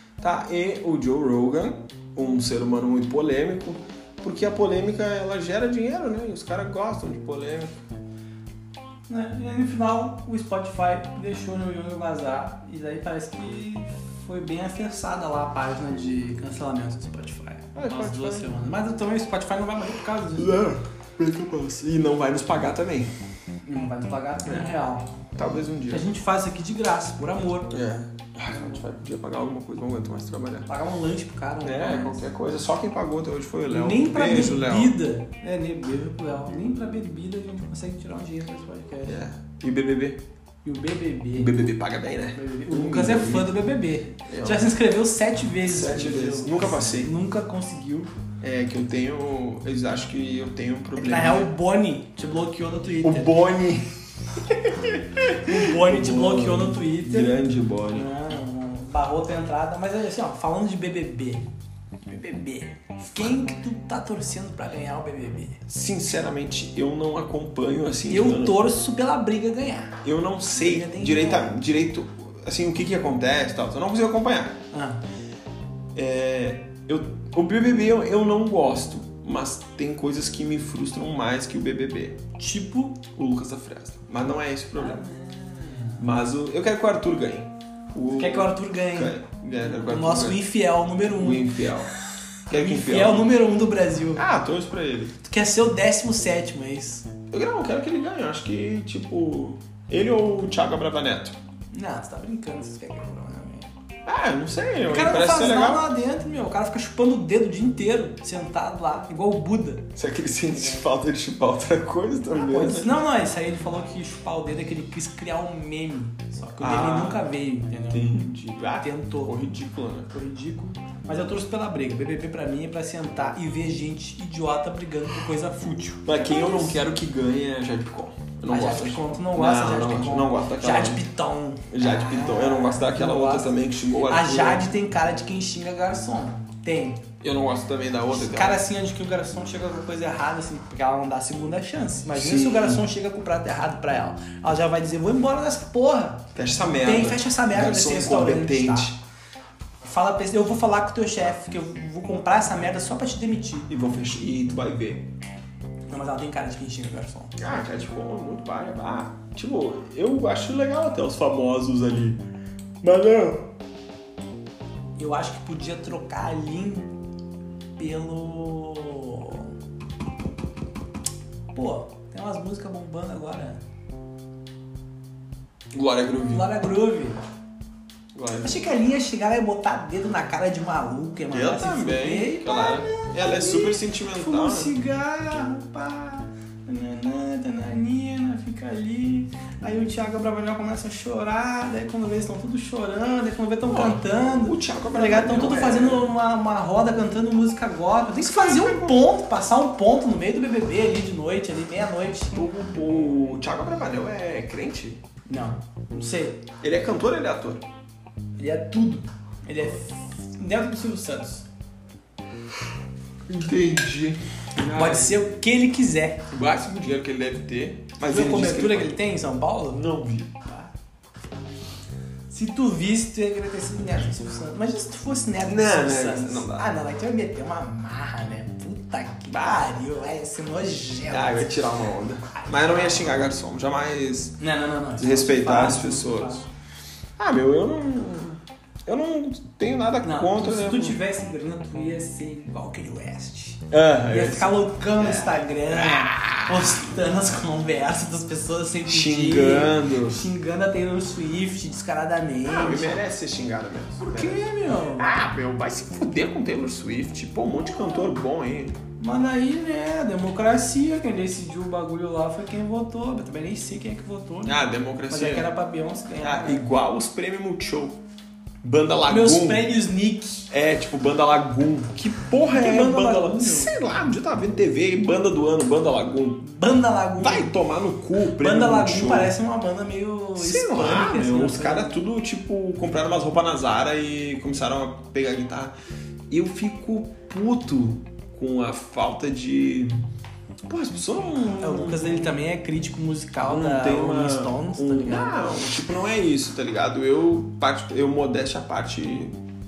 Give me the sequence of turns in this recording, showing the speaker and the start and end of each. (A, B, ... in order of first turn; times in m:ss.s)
0:00.2-0:07.8 A
0:09.1-0:20.6 B
0:17.7-0:18.6 A
0:20.4-0:23.1 A
0:23.6-0:25.1 B
0:24.4-0:24.7 A
0:25.3-0:26.1 A
0:25.9-0:27.7 B
0:27.7-0:30.7 A
0:28.5-0:28.8 B
0:30.7-0:32.2 B
0:31.6-0:35.0 A
0:33.7-0:39.2 B
0:39.0-0:40.2 A
0:40.6-0:41.5 B
0:41.3-0:43.6 A
0:42.3-0:48.1 B
0:44.3-0:44.7 A
0:45.6-0:47.1 A
0:48.4-0:51.5 A
0:50.9-0:53.3 B
0:53.0-0:58.1 A
0:55.4-0:57.3 B
0:57.9-1:01.5 B
1:02.1-1:05.6 B
1:05.6-1:08.6 A
1:08.1-1:10.0 B
1:10.0-1:14.6 A
1:10.5-1:11.6 B
1:14.7-1:15.0 B
1:15.9-1:22.2 A
1:22.4-1:23.0 B
1:23.1-1:25.0 A
1:24.8-1:26.1 B
1:26.0-1:30.4 A
1:28.2-1:31.6 B
1:31.1-1:31.9 A
1:32.5-1:33.3 A
1:32.5-1:34.2 B
1:34.1-1:35.2 A
1:35.2-1:37.1 B
1:37.3-1:41.4 A
1:41.7-1:43.7 B
1:44.0-1:45.9 A
1:44.8-1:49.9 B
1:49.9-1:52.9 A
1:50.5-1:50.8 B
1:52.3-1:58.1 B
1:56.6-1:57.2 A
1:57.9-2:00.1 A
1:58.8-1:59.3 B
2:00.1-2:06.8 B
2:06.0-2:11.0 A
2:08.5-2:17.0 B
2:11.7-2:14.7 A
2:17.2-2:18.6 A
2:18.1-2:26.3 B
2:22.1-2:22.8 A
2:26.3-2:29.0 A
2:26.8-2:28.9 B
2:29.8-2:33.7 B
2:33.7-2:35.1 A
2:35.9-2:37.4 B
2:37.4-2:42.2 A
2:42.8-2:43.5 A
2:45.0-2:46.9 B
2:47.8-2:49.5 B
2:51.5-2:53.6 B
2:55.7-2:56.6 A
2:56.2-2:57.2 B
2:58.1-2:58.6 A
2:58.4-3:22.4 B
3:01.3-3:04.8 A
3:13.7-3:16.1 A
3:18.2-3:19.0 A
3:22.3-3:25.0 A
3:25.3-3:26.4 B
3:26.6-3:27.6 A
3:28.4-3:31.4 B
3:33.3-3:35.2 A
3:34.6-3:36.2 B
3:36.3-3:39.0 A
3:38.0-3:39.8 B
3:39.7-3:40.4 A
3:42.3-3:51.5 B
3:45.4-3:46.7 A
3:49.3-3:49.7 A
3:51.1-3:54.4 A
3:52.3-3:53.2 B
3:54.4-3:56.4 B
3:55.0-3:56.4 A
3:57.2-4:01.0 A
4:00.0-4:13.0 B
4:03.7-4:06.9 A
4:08.8-4:10.3 A
4:12.4-4:14.4 A
4:14.0-4:15.2 B
4:15.0-4:18.8 A
4:19.0-4:26.6 B
4:24.4-4:25.5 A
4:26.2-4:28.0 A
4:28.6-4:29.7 A
4:29.0-4:30.5 B
4:30.5-4:36.4 A
4:32.5-4:33.7 B
4:36.4-4:37.5 B
4:37.2-4:39.3 A
4:38.2-4:42.0 B
4:40.4-4:45.7 A
4:46.3-4:50.0 A
4:50.7-4:52.4 A
4:51.6-4:55.4 B
4:53.4-4:59.3 A